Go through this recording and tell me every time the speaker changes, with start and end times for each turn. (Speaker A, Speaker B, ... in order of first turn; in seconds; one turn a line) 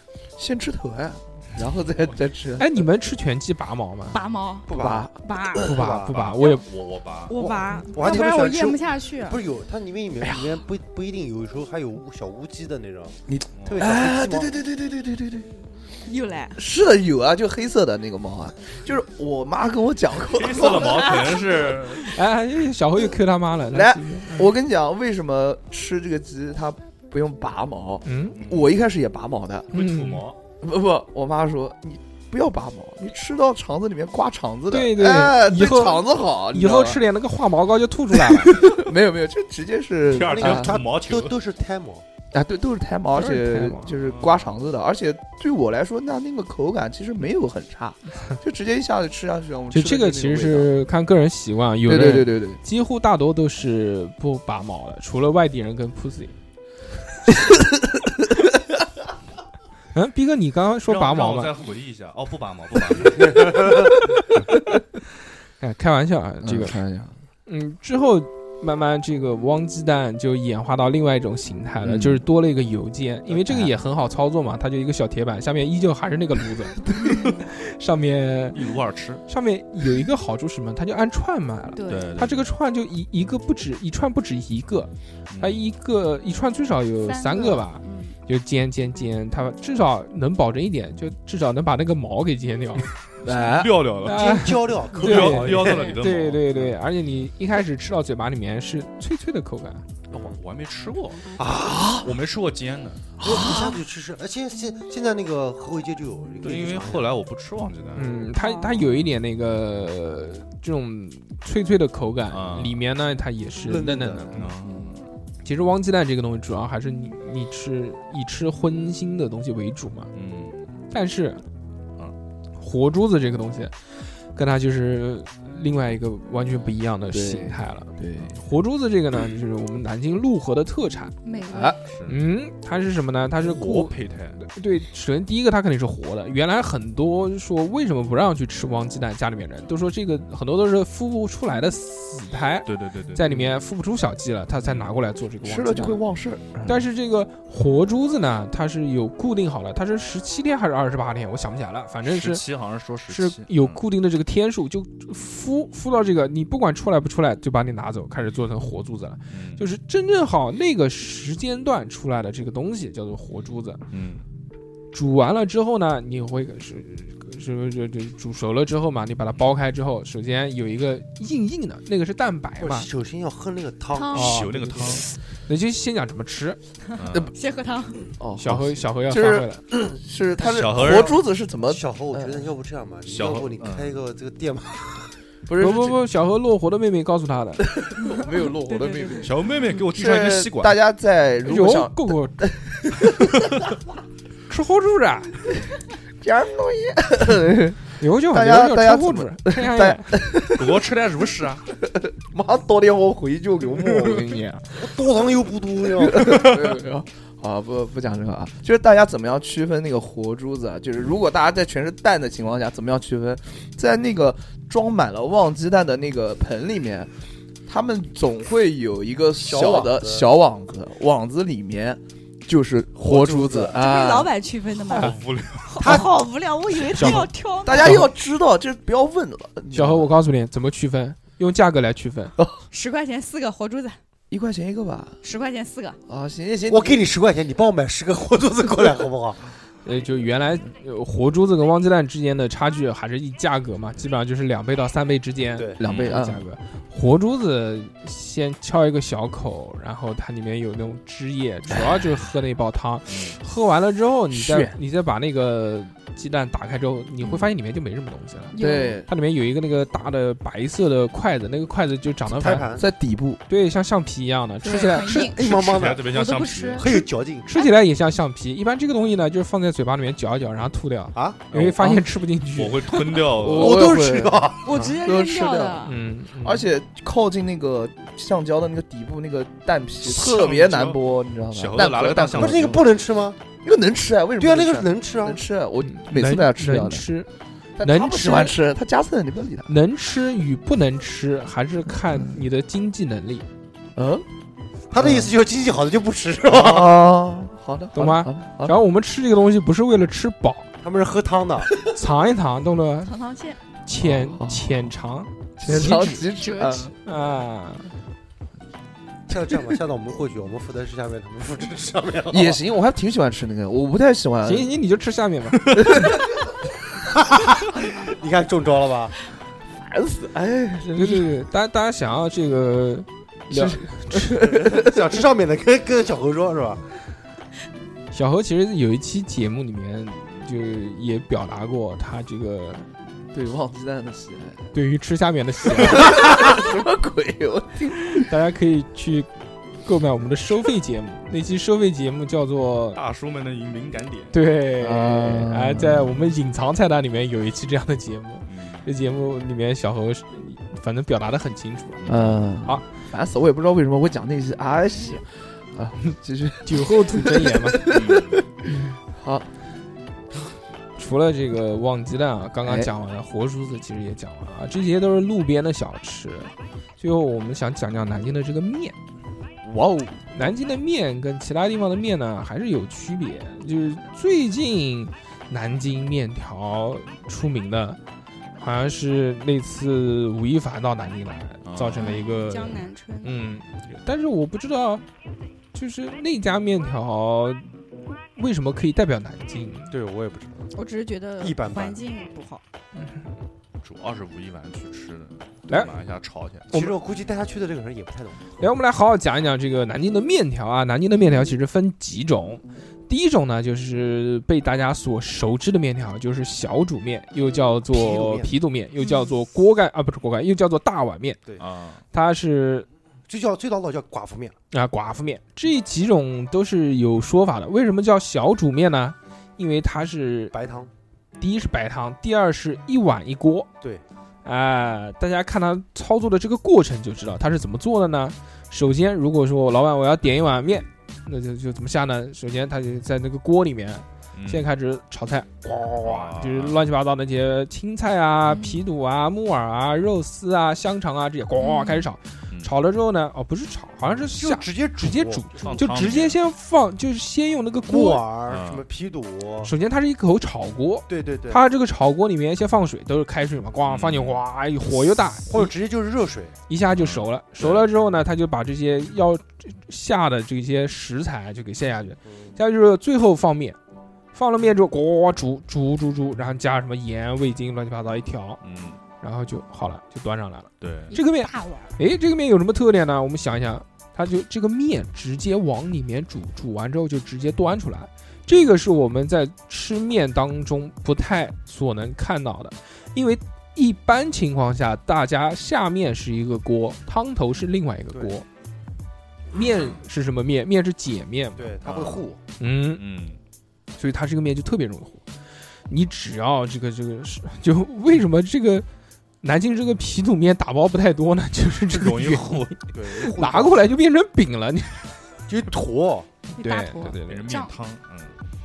Speaker A: 0.4-2.8
Speaker B: 2.6-4.2
Speaker C: 4.1-5.7
Speaker D: 4.7-6.2
Speaker A: 4.7-5.2
Speaker B: 5.6-6.6
Speaker E: 6.1-7.4
Speaker C: 7.3-9.4
Speaker D: 7.4-14.6
Speaker A: 10.2-10.5
Speaker A: 13.3-15.5
Speaker E: 13.6-13.9
Speaker C: 16.1-16.6
Speaker A: 16.6-21.3
Speaker E: 20.3-22.2
Speaker C: 20.6-21.4
Speaker B: 22.1-24.5
Speaker A: 23.7-29.7
Speaker B: 28.0-28.4
Speaker E: 28.3-28.8
Speaker E: 29.7-30.4
Speaker B: 29.7-30.3
Speaker A: 30.6-37.0
Speaker B: 34.7-38.8
Speaker A: 38.3-40.8
Speaker E: 40.0-41.4
Speaker D: 40.2-42.0
Speaker A: 42.3-50.7
Speaker B: 43.1-43.9
Speaker E: 44.0-44.5
Speaker B: 49.7-56.4
Speaker A: 51.9-52.6
Speaker B: 59.9-61.5
Speaker E: 60.9-63.8
Speaker D: 63.2-63.9
Speaker B: 65.6-66.8
Speaker A: 66.4-67.2
Speaker B: 67.5-78.6
Speaker A: 71.8-72.2
Speaker A: 73.3-73.7
Speaker C: 77.0-77.5
Speaker E: 78.5-79.2
Speaker B: 79.3-92.9
Speaker C: 81.8-82.2
Speaker E: 81.9-82.5
Speaker E: 85.3-85.6
Speaker C: 87.0-88.2
Speaker A: 93.2-93.9
Speaker E: 93.3-94.4
Speaker B: 94.0-99.8
Speaker D: 94.0-96.0
Speaker E: 94.9-96.7
Speaker D: 100.1-100.4
Speaker E: 100.1-103.0
Speaker D: 101.4-102.0
Speaker A: 101.6-102.1
Speaker A: 103.2-103.7
Speaker D: 103.2-107.1
Speaker E: 106.4-108.2
Speaker B: 108.0-114.5
Speaker C: 108.3-108.8
Speaker E: 112.3-112.8
Speaker D: 113.6-114.5
Speaker E: 114.3-115.0
Speaker B: 115.4-120.1
Speaker E: 120.1-120.6
Speaker B: 120.9-121.4
Speaker B: 122.6-123.7
Speaker B: 124.3-131.2
Speaker A: 127.1-128.3
Speaker C: 131.2-131.8
Speaker A: 131.5-131.8
Speaker E: 131.8-132.2
Speaker B: 132.1-146.0
Speaker E: 133.4-134.4
Speaker E: 142.7-143.4
Speaker E: 144.6-144.9
Speaker A: 145.4-146.8
Speaker B: 146.7-152.4
Speaker E: 152.1-153.8
Speaker B: 153.1-163.8
Speaker E: 159.3-159.6
Speaker E: 163.9-164.2
Speaker B: 164.9-172.9
Speaker D: 172.6-174.3
Speaker C: 173.9-174.5
Speaker E: 174.1-175.1
Speaker B: 174.2-176.6
Speaker E: 177.0-177.3
Speaker C: 177.0-178.1
Speaker A: 178.2-182.5
Speaker B: 178.4-179.6
Speaker E: 180.4-181.2
Speaker D: 180.8-181.1
Speaker D: 181.7-185.1
Speaker E: 183.1-184.0
Speaker A: 185.5-186.0
Speaker B: 185.6-187.7
Speaker A: 187.7-193.6
Speaker C: 188.0-189.8
Speaker E: 189.2-190.8
Speaker B: 191.4-192.5
Speaker B: 194.5-195.4
Speaker A: 196.2-200.8
Speaker B: 198.0-200.2
Speaker E: 200.4-201.7
Speaker A: 201.9-204.4
Speaker B: 204.0-204.6
Speaker D: 204.8-206.7
Speaker A: 205.9-217.1
Speaker A: 217.7-224.3
Speaker D: 219.4-220.3
Speaker D: 223.0-223.8
Speaker C: 223.8-228.0
Speaker E: 224.9-226.0
Speaker D: 225.8-226.1
Speaker B: 226.9-228.1
Speaker A: 227.6-230.1
Speaker B: 229.7-232.3
Speaker C: 232.7-234.0
Speaker A: 234.3-235.2
Speaker C: 235.2-236.0
Speaker A: 236.1-237.1
Speaker D: 236.7-239.5
Speaker B: 239.8-258.6
Speaker D: 245.6-245.8
Speaker A: 245.8-246.4
Speaker E: 245.8-246.2
Speaker E: 253.1-253.4
Speaker A: 254.3-254.8
Speaker C: 258.5-259.0
Speaker A: 258.6-259.1
Speaker B: 259.1-262.7
Speaker D: 262.3-262.9
Speaker A: 262.8-263.4
Speaker B: 263.5-265.3
Speaker C: 264.6-265.5
Speaker D: 265.1-266.1
Speaker E: 265.4-266.9
Speaker C: 266.0-267.0
Speaker D: 266.8-267.5
Speaker B: 267.5-273.1
Speaker D: 271.1-271.4
Speaker E: 271.5-271.8
Speaker E: 272.6-273.9
Speaker A: 273.3-275.9
Speaker D: 273.4-275.0
Speaker C: 274.6-276.0
Speaker B: 275.9-276.7
Speaker A: 276.4-282.7
Speaker E: 280.0-281.0
Speaker E: 281.5-283.0
Speaker D: 282.3-283.4
Speaker A: 283.6-287.1
Speaker D: 284.4-285.4
Speaker B: 285.8-287.3
Speaker A: 287.8-289.7
Speaker B: 287.8-288.6
Speaker B: 289.7-293.5
Speaker A: 292.1-292.4
Speaker A: 294.0-294.2
Speaker D: 294.9-297.1
Speaker A: 295.0-295.3
Speaker A: 296.5-298.8
Speaker B: 297.9-300.7
Speaker D: 300.8-301.7
Speaker B: 301.9-303.1
Speaker C: 303.0-303.6
Speaker B: 303.8-306.2
Speaker A: 304.0-304.9
Speaker A: 305.6-306.9
Speaker C: 305.8-306.9
Speaker B: 307.1-307.9
Speaker D: 309.3-312.6
Speaker A: 312.3-314.7
Speaker B: 314.4-315.8
Speaker A: 315.7-316.3
Speaker D: 317.1-319.1
Speaker A: 319.8-321.3
Speaker B: 320.8-324.4
Speaker A: 323.5-324.9
Speaker D: 324.3-326.9
Speaker B: 328.1-332.9
Speaker A: 333.3-334.7
Speaker B: 334.7-336.2
Speaker A: 335.7-338.3
Speaker B: 338.1-339.3
Speaker B: 339.8-343.0
Speaker E: 342.9-344.3
Speaker B: 344.3-352.9
Speaker A: 344.8-346.3
Speaker E: 348.5-348.9
Speaker E: 352.0-352.4
Speaker A: 352.1-358.4
Speaker B: 356.6-357.9
Speaker E: 357.8-358.4
Speaker A: 359.1-359.5
Speaker B: 361.0-369.0
Speaker A: 362.6-362.9
Speaker A: 369.6-370.3
Speaker B: 370.3-378.0
Speaker B: 378.6-385.0
Speaker E: 381.7-382.2
Speaker C: 381.9-383.4
Speaker B: 385.7-387.6
Speaker B: 388.4-389.9
Speaker D: 389.9-390.7
Speaker C: 390.7-392.6
Speaker D: 391.4-392.1
Speaker E: 393.8-396.8
Speaker D: 396.7-398.5
Speaker B: 398.6-411.4
Speaker D: 407.9-408.5
Speaker C: 409.0-409.4
Speaker E: 411.6-412.0
Speaker B: 412.1-412.9
Speaker D: 413.3-414.6
Speaker B: 414.7-420.6
Speaker D: 420.5-420.9
Speaker B: 421.4-423.7
Speaker B: 424.4-448.3
Speaker E: 434.3-434.7
Speaker E: 436.0-436.8
Speaker C: 438.4-438.8
Speaker C: 441.6-442.1
Speaker D: 444.3-446.2
Speaker E: 445.6-446.4
Speaker D: 447.9-449.7
Speaker E: 448.5-448.9
Speaker B: 449.6-455.7
Speaker D: 451.1-451.6
Speaker E: 453.9-454.4
Speaker D: 455.4-456.6
Speaker B: 456.7-463.8
Speaker E: 456.9-457.9
Speaker D: 462.2-462.6
Speaker B: 464.3-468.6
Speaker E: 468.6-469.0
Speaker B: 469.2-488.5
Speaker E: 470.8-471.2
Speaker C: 471.1-471.9
Speaker D: 488.1-488.4
Speaker B: 489.5-491.8
Speaker E: 489.7-490.0
Speaker D: 491.6-492.4
Speaker E: 491.9-492.3
Speaker B: 492.6-493.0
Speaker E: 493.0-493.4
Speaker B: 494.0-495.2
Speaker B: 495.9-498.9
Speaker B: 499.4-505.2
Speaker E: 501.9-502.8
Speaker D: 502.9-503.9
Speaker D: 505.5-506.3
Speaker C: 506.6-507.7
Speaker B: 506.6-507.6
Speaker E: 507.2-508.4